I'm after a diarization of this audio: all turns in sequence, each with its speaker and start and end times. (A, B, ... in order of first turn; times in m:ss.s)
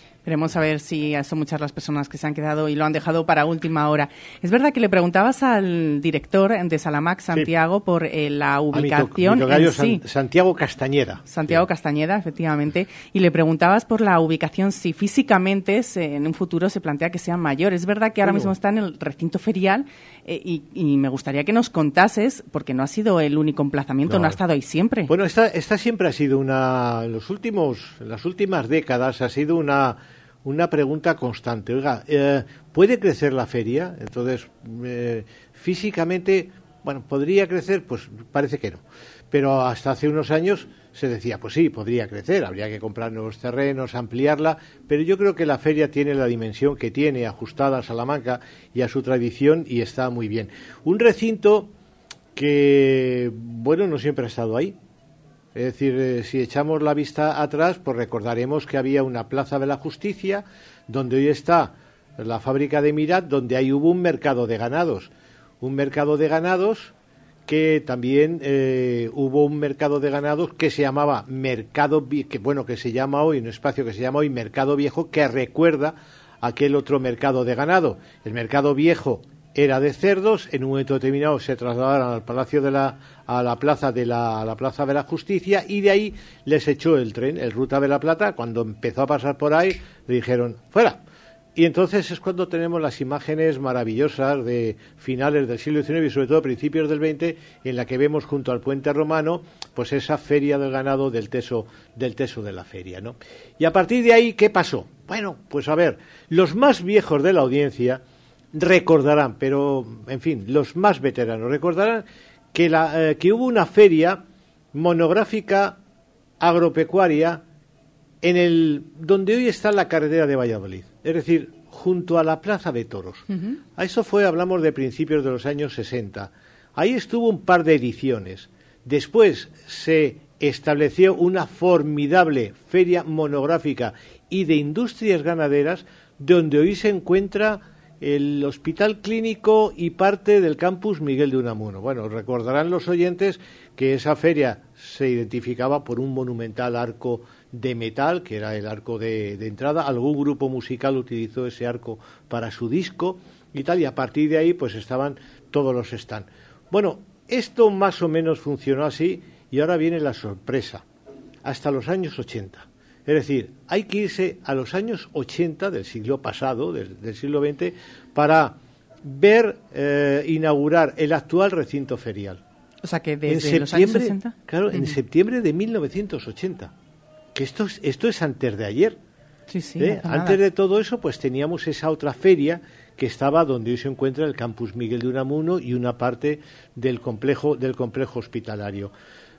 0:00.2-0:10.0 A
0:08.7-0:11.2 B
0:11.2-0:25.1 A
0:25.1-0:38.8 B
0:39.3-0:51.7 B
0:52.4-0:54.8 B
0:55.6-1:05.1 B
1:05.6-1:06.9 B
1:07.5-1:31.0 B
1:31.6-1:48.0 B
1:48.6-1:52.0 B
1:52.5-1:54.2 B
1:54.7-1:55.7 B
1:56.4-1:57.4 B
1:58.2-2:03.2 B
2:03.8-2:40.8 B
2:41.4-2:48.5 B
2:49.0-2:52.4 B
2:52.8-2:55.0 A
2:53.3-2:56.7 B
2:57.4-2:59.0 B
2:59.5-3:00.4 A
2:59.8-3:08.9 B